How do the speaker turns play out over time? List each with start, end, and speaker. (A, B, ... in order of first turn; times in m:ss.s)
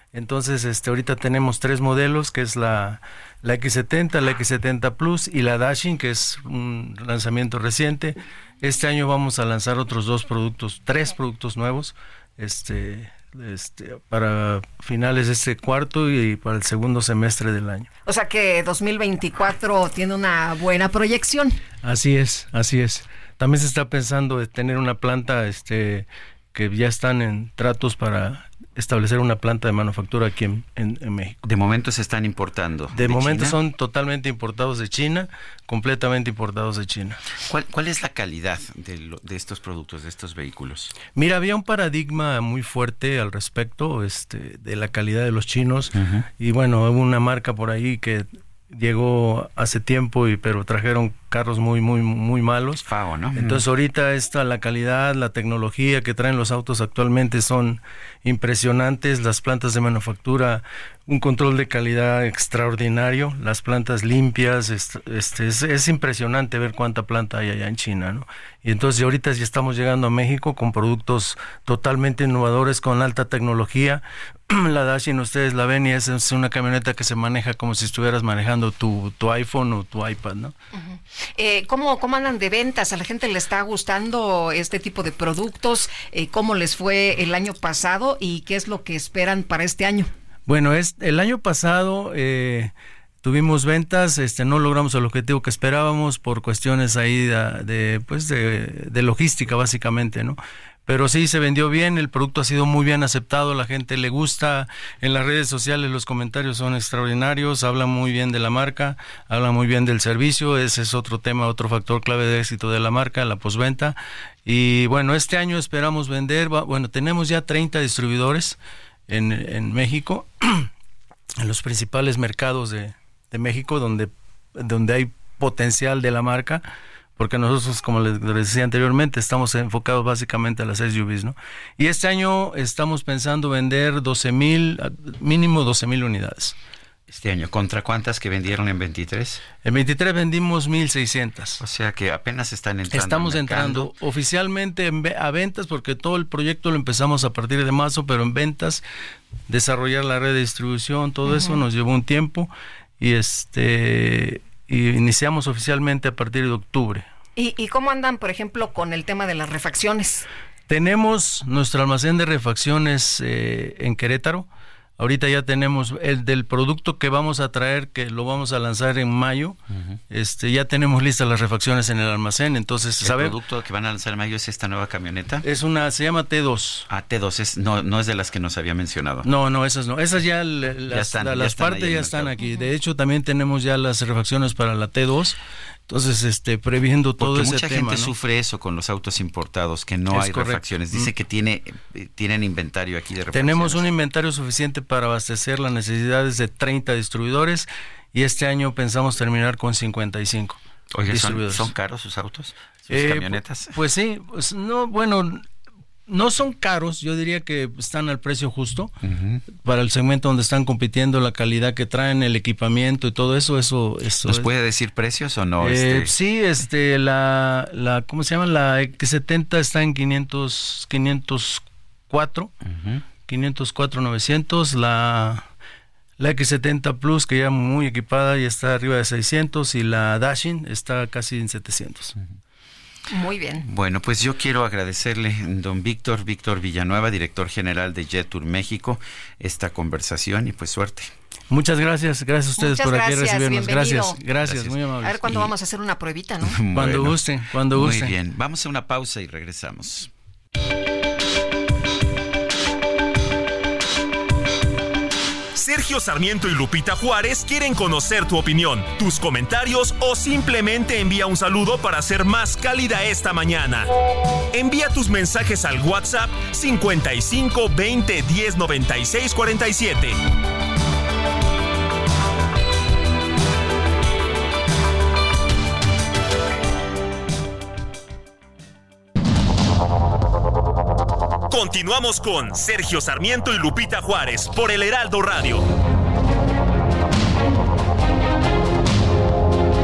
0:00.1-0:17.9 A
0:18.0-0:21.5 B
0:21.8-0:31.4 A
0:31.4-0:33.6 C
0:32.9-0:37.2 A
0:37.5-0:40.9 C
0:41.1-0:52.8 A
0:45.9-0:46.2 C
0:52.8-0:53.6 C
0:53.3-1:20.5 A
1:20.7-1:30.1 B
1:30.5-2:00.7 A
2:01.4-2:06.6 A
2:07.2-2:16.5 A
2:17.1-2:19.4 C
2:19.6-2:21.6 A
2:21.6-2:23.9 C
2:22.9-2:28.8 A
2:29.5-2:37.0 A
2:31.3-2:31.6 B
2:37.4-2:40.2 B
2:40.7-2:44.5 A
2:45.0-2:49.6 A
2:49.7-2:50.0 C
2:50.1-2:53.3 A
2:53.0-2:55.4 C
2:55.4-2:56.9 A
2:56.9-2:59.3 C
2:59.2-3:05.4 A
3:00.9-3:02.3 C
3:05.9-3:08.1 A
3:07.2-3:13.9 C
3:10.1-3:11.1 A
3:13.3-3:21.7 A
3:20.9-3:23.8 C
3:22.9-3:25.4 A
3:26.1-3:28.9 A
3:29.0-3:29.4 C
3:29.6-3:34.5 A
3:34.2-3:36.2 C
3:35.6-3:42.5 A
3:42.7-3:43.0 C
3:43.3-3:45.4 A
3:46.2-3:52.1 A
3:53.1-3:53.6 B
3:53.6-4:01.1 C
4:01.5-4:05.2 A
4:02.6-4:04.2 B
4:04.4-4:05.5 C
4:05.0-4:06.6 B
4:06.4-4:10.1 C
4:06.7-4:08.1 A
4:15.5-4:23.9 D
4:24.5-4:30.2 D
4:41.5-4:45.7 D